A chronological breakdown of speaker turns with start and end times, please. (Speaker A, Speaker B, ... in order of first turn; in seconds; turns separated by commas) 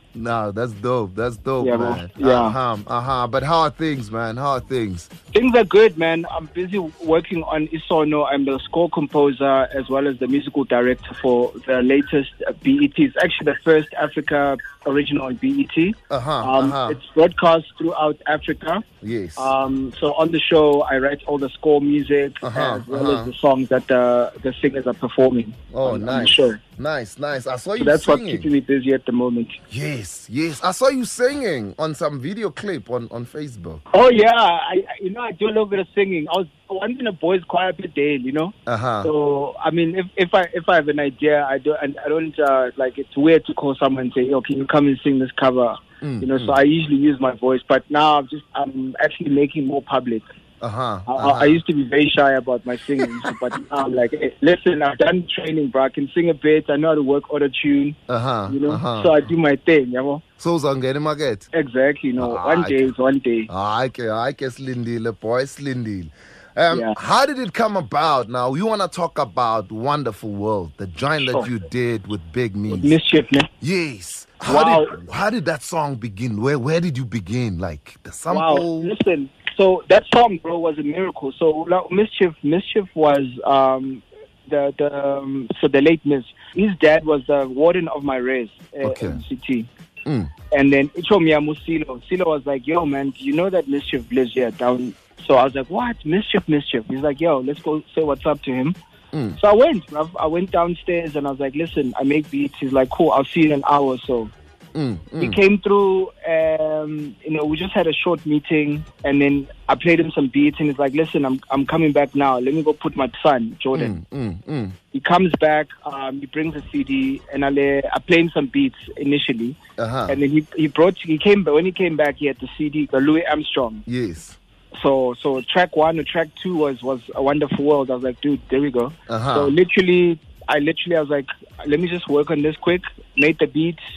Speaker A: 0.1-5.1, Speaker B: 1.6-2.6, Speaker B: 5.3-18.8, Speaker A: 16.1-17.0, Speaker A: 19.0-19.5, Speaker B: 19.4-26.6, Speaker A: 22.4-23.3, Speaker A: 25.7-28.5, Speaker B: 27.8-29.6, Speaker A: 29.7-33.8, Speaker B: 33.9-50.2, Speaker A: 38.7-39.1, Speaker A: 46.0-46.6, Speaker A: 50.6-51.6, Speaker B: 51.1-60.2, Speaker A: 58.1-59.2, Speaker A: 60.4-61.5, Speaker B: 61.5-63.5, Speaker A: 62.2-62.8, Speaker A: 63.5-73.0, Speaker B: 66.7-67.0, Speaker B: 72.7-73.5, Speaker A: 73.6-78.9, Speaker B: 74.5-75.0, Speaker B: 78.3-89.7, Speaker A: 88.8-89.2, Speaker A: 90.0-90.3, Speaker B: 90.5-98.8, Speaker A: 99.1-99.4, Speaker B: 99.3-104.3, Speaker A: 104.7-105.4, Speaker B: 105.2-114.0, Speaker A: 113.7-114.8, Speaker B: 114.9-119.6, Speaker A: 119.8-120.2, Speaker B: 120.1-123.8, Speaker A: 123.9-124.4, Speaker B: 124.7-133.8, Speaker A: 129.1-129.5